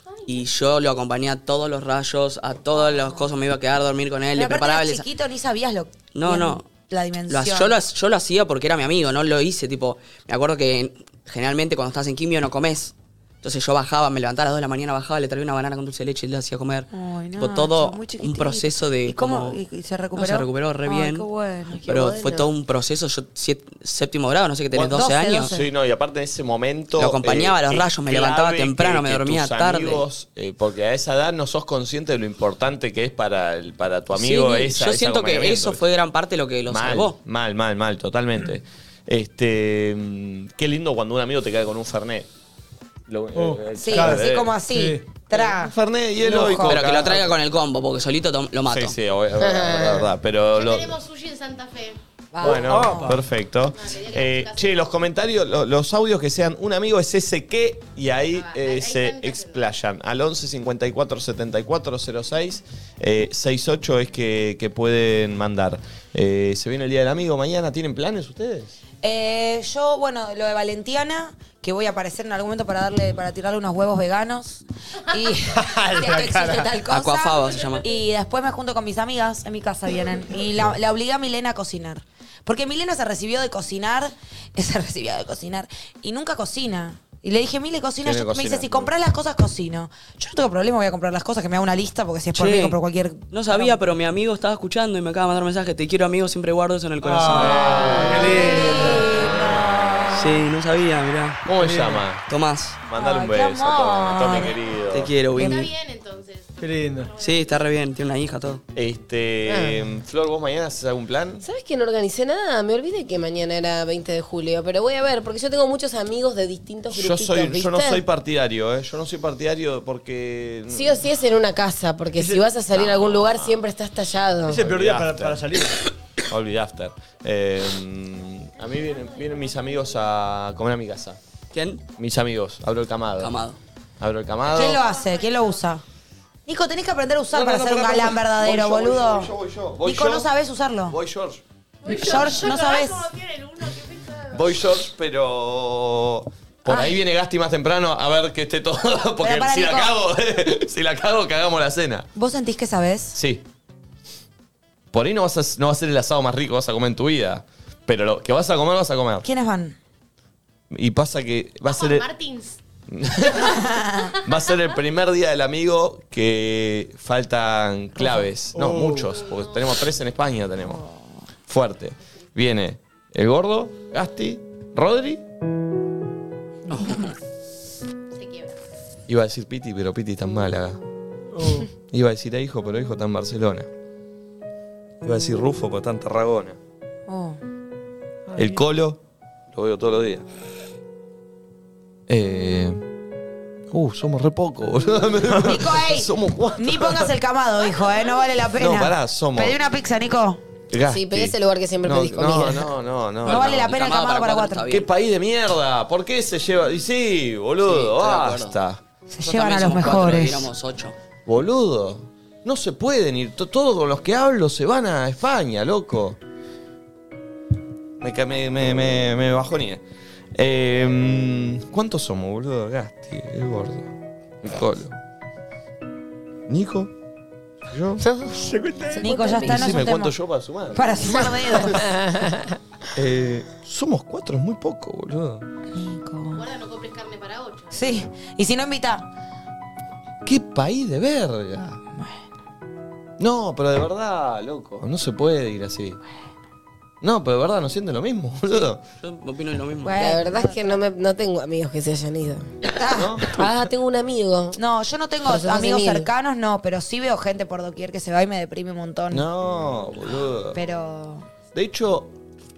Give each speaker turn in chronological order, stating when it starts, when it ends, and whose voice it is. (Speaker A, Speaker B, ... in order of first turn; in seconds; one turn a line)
Speaker A: 0.1-0.4
Speaker B: 0.2-5.0
Speaker C: 2.8-3.3
Speaker C: 4.3-7.8
Speaker B: 6.1-6.7
Speaker B: 7.3-16.9
Speaker C: 16.9-21.9
Speaker B: 17.4-19.6
Speaker B: 20.1-21.3
Speaker D: 21.8-22.5
Speaker B: 21.8-25.5
Speaker C: 24.8-25.7
Speaker E: 25.5-35.8
Speaker B: 26.9-30.0
Speaker B: 34.1-37.2
Speaker E: 36.7-42.3
Speaker E: 43.1-44.6
Speaker F: 43.3-45.1
Speaker C: 43.8-46.8
Speaker E: 45.3-47.4
Speaker B: 46.5-48.9
Speaker E: 48.7-51.0
Speaker D: 49.4-50.1
Speaker A: 50.5-52.0
Speaker C: 52.3-53.2
Speaker E: 52.4-68.8
Speaker F: 52.5-53.2
Speaker A: 53.7-55.0
Speaker A: 58.3-59.7
Speaker C: 69.0-93.8
Speaker F: 75.5-76.7
Speaker B: 76.8-77.9
Speaker E: 88.0-88.9
Speaker B: 92.3-92.8
Speaker B: 93.3-98.3
Speaker F: 97.0-99.2
Speaker E: 97.3-98.6
Speaker C: 98.2-100.3
Speaker A: 98.7-99.2
Speaker E: 99.4-100.3
Speaker B: 100.1-101.4
Speaker E: 101.5-102.3
Speaker F: 101.6-102.0
Speaker B: 102.3-102.8
Speaker E: 102.8-105.2
Speaker C: 102.9-104.6
Speaker B: 104.9-105.7
Speaker A: 105.3-107.7
Speaker C: 105.3-105.7
Speaker F: 106.6-107.1
Speaker B: 107.2-108.6
Speaker E: 108.7-111.4
Speaker D: 109.5-109.8
Speaker D: 111.4-118.0
Speaker E: 116.9-121.0
Speaker D: 120.7-124.6
Speaker E: 122.7-123.6
Speaker F: 124.5-125.8
Speaker E: 124.5-125.5
Speaker E: 126.3-131.2
Speaker A: 128.6-130.1
Speaker B: 131.5-131.8
Speaker E: 132.0-133.3
Speaker B: 133.2-133.6
Speaker E: 134.0-134.8
Speaker A: 134.4-135.6
Speaker C: 134.5-135.8
Speaker C: 136.5-141.0
Speaker E: 137.3-140.3
Speaker E: 140.9-141.4
Speaker A: 141.8-144.7
Speaker C: 141.8-143.1
Speaker E: 144.3-152.1
Speaker C: 146.7-147.0
Speaker C: 149.2-150.0
Speaker C: 152.2-153.2
Speaker E: 153.2-153.4
Speaker E: 154.9-159.3
Speaker C: 159.2-159.8
Speaker E: 160.7-162.1
Speaker A: 161.7-162.6
Speaker E: 162.9-170.8
Speaker A: 163.2-164.4
Speaker C: 163.5-164.1
Speaker C: 167.9-168.3
Speaker F: 168.5-169.2
Speaker A: 169.1-169.8
Speaker C: 170.6-171.2
Speaker E: 171.5-175.2
Speaker B: 176.7-177.1
Speaker A: 178.1-178.5
Speaker E: 179.1-180.8
Speaker F: 181.3-181.7
Speaker E: 181.9-183.7
Speaker E: 185.0-186.6
Speaker C: 187.1-187.4
Speaker F: 188.3-188.6
Speaker E: 188.3-189.0
Speaker E: 189.5-190.2
Speaker E: 192.1-192.8
Speaker E: 193.7-197.1
Speaker C: 195.3-200.4
Speaker A: 197.7-198.3
Speaker E: 198.6-199.6
Speaker E: 200.7-203.8
Speaker D: 200.9-202.7
Speaker B: 203.2-204.9
Speaker C: 203.2-204.8
Speaker E: 204.7-208.8
Speaker B: 207.7-208.6
Speaker C: 209.1-210.5
Speaker B: 209.2-210.9
Speaker E: 211.3-216.2
Speaker E: 218.0-219.8
Speaker E: 220.3-225.0
Speaker E: 226.5-226.9
Speaker E: 227.7-228.0
Speaker D: 228.0-229.7
Speaker F: 228.4-229.3
Speaker C: 229.0-230.2
Speaker E: 229.4-231.8
Speaker C: 230.7-231.8
Speaker D: 231.5-232.6
Speaker E: 232.9-235.4
Speaker C: 235.7-236.4
Speaker A: 236.3-238.1
Speaker C: 237.7-239.1
Speaker E: 240.2-241.8
Speaker E: 243.2-246.0
Speaker E: 247.0-248.8
Speaker B: 249.0-250.1
Speaker C: 249.8-250.8
Speaker D: 250.0-252.5
Speaker C: 252.7-253.2
Speaker E: 252.9-253.4
Speaker D: 253.3-254.6
Speaker C: 254.6-259.3
Speaker D: 255.2-256.1
Speaker E: 259.1-260.6
Speaker C: 260.5-261.3
Speaker E: 261.5-262.1